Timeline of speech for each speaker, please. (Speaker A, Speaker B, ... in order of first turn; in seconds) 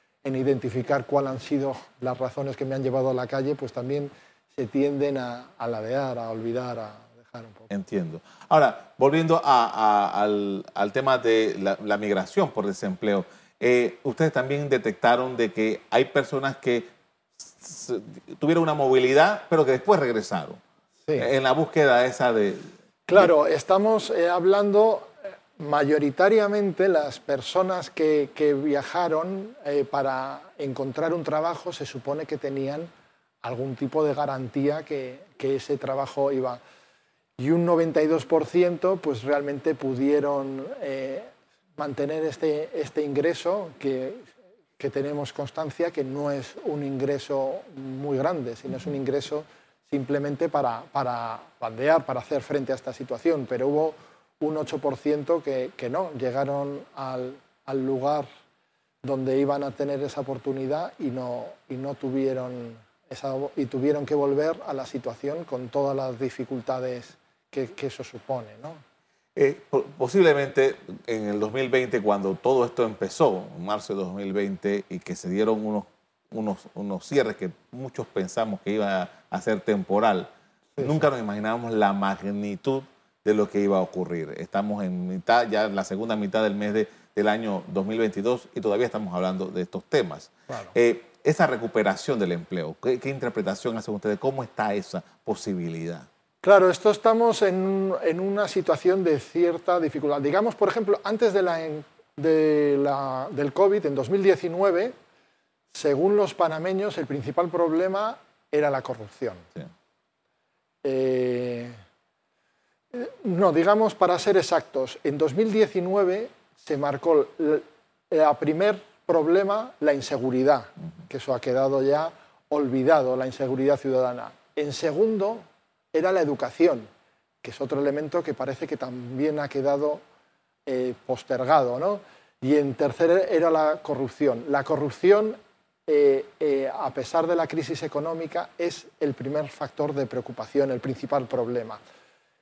Speaker A: 0.2-7.7, 23.1-32.9, 33.4-36.6, 37.4-58.3, 59.0-68.8, 80.8-81.0, 90.5-90.7, 96.4-105.0, 105.7-109.5, 110.8-111.8, 112.9-126.9, 127.4-130.0, 130.7-141.8
Speaker B: 7.7-20.6, 21.2-23.3, 69.4-80.3, 80.8-96.1